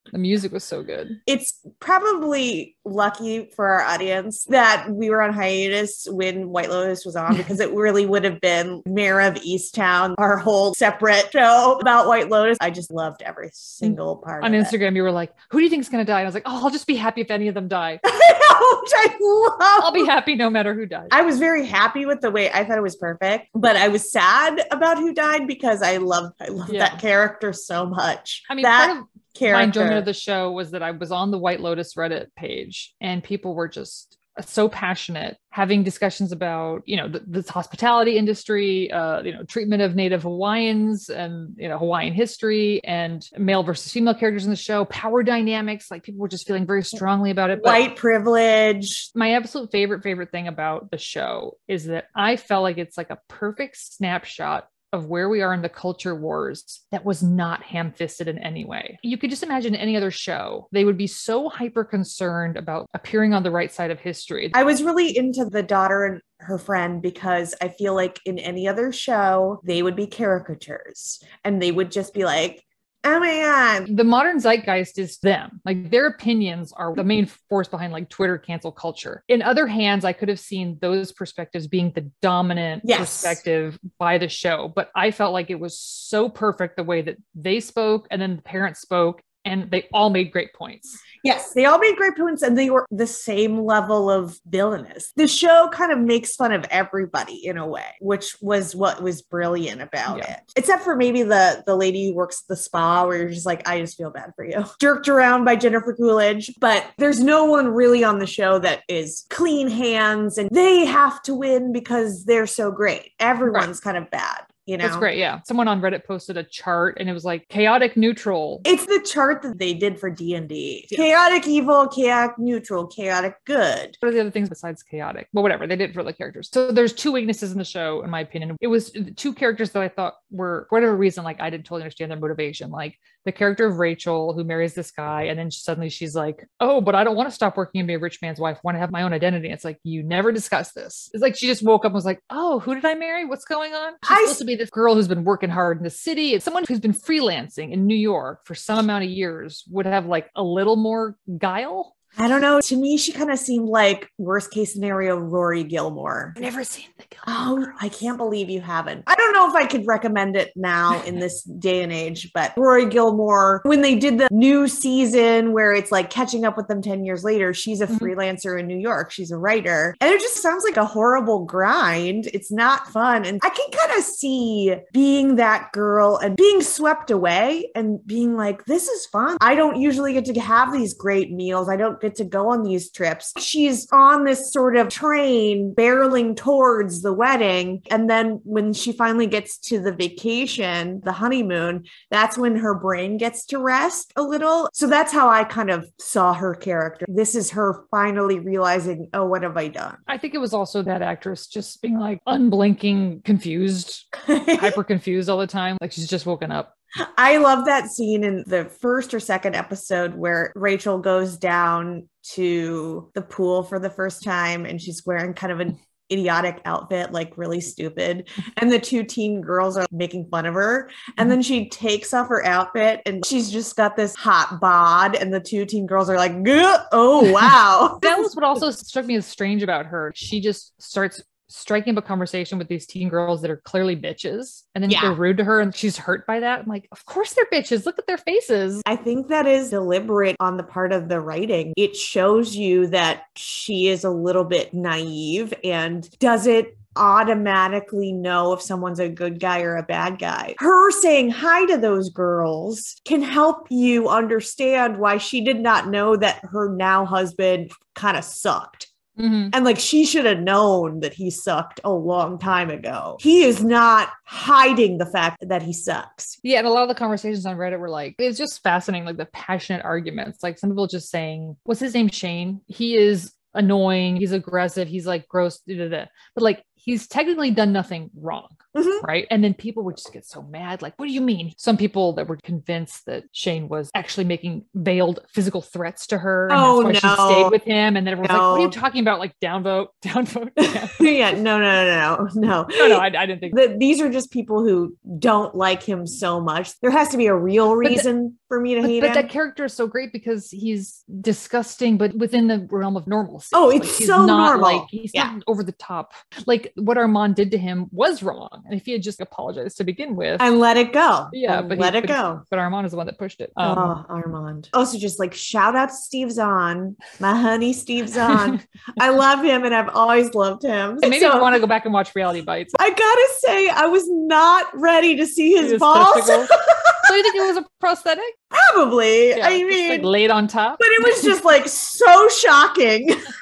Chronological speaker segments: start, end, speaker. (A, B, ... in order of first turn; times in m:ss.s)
0:00.1-0:01.2 A
0:01.2-0:14.7 B
0:13.8-0:18.0 A
0:18.0-0:20.1 B
0:19.8-0:21.1 A
0:21.1-0:30.1 B
0:26.7-0:27.0 A
0:28.5-0:47.9 A
0:47.5-0:49.1 B
0:49.1-1:04.5 A
1:04.5-1:13.9 B
1:13.9-1:31.0 A
1:22.8-1:23.4 B
1:31.2-1:55.1 B
1:40.1-1:40.3 A
1:54.8-1:58.6 A
1:58.6-2:04.0 B
2:04.0-2:31.9 A
2:24.0-2:24.4 B
2:32.2-2:36.4 B
2:36.4-2:37.8 A
2:37.2-3:20.0 B
3:20.1-3:26.7 A
3:24.2-3:24.8 B
3:27.0-3:48.3 B
3:48.0-3:58.8 A
3:54.9-3:55.2 B
3:58.8-4:18.9 B
4:19.2-4:19.5 A
4:19.5-4:26.4 B
4:26.4-4:51.1 A
4:38.7-4:39.0 B
4:46.5-4:47.6 B
4:48.2-4:48.8 B
4:50.6-4:59.3 B
4:52.7-4:53.6 A
4:58.8-5:10.5 A
5:03.5-5:05.3 B
5:10.4-5:12.4 B
5:11.3-5:14.0 A
5:13.6-5:21.6 B
5:21.0-5:22.8 A
5:22.8-5:27.4 B
5:25.6-5:28.3 A
5:28.5-5:30.1 B
5:29.3-5:31.4 A
5:30.8-5:33.3 B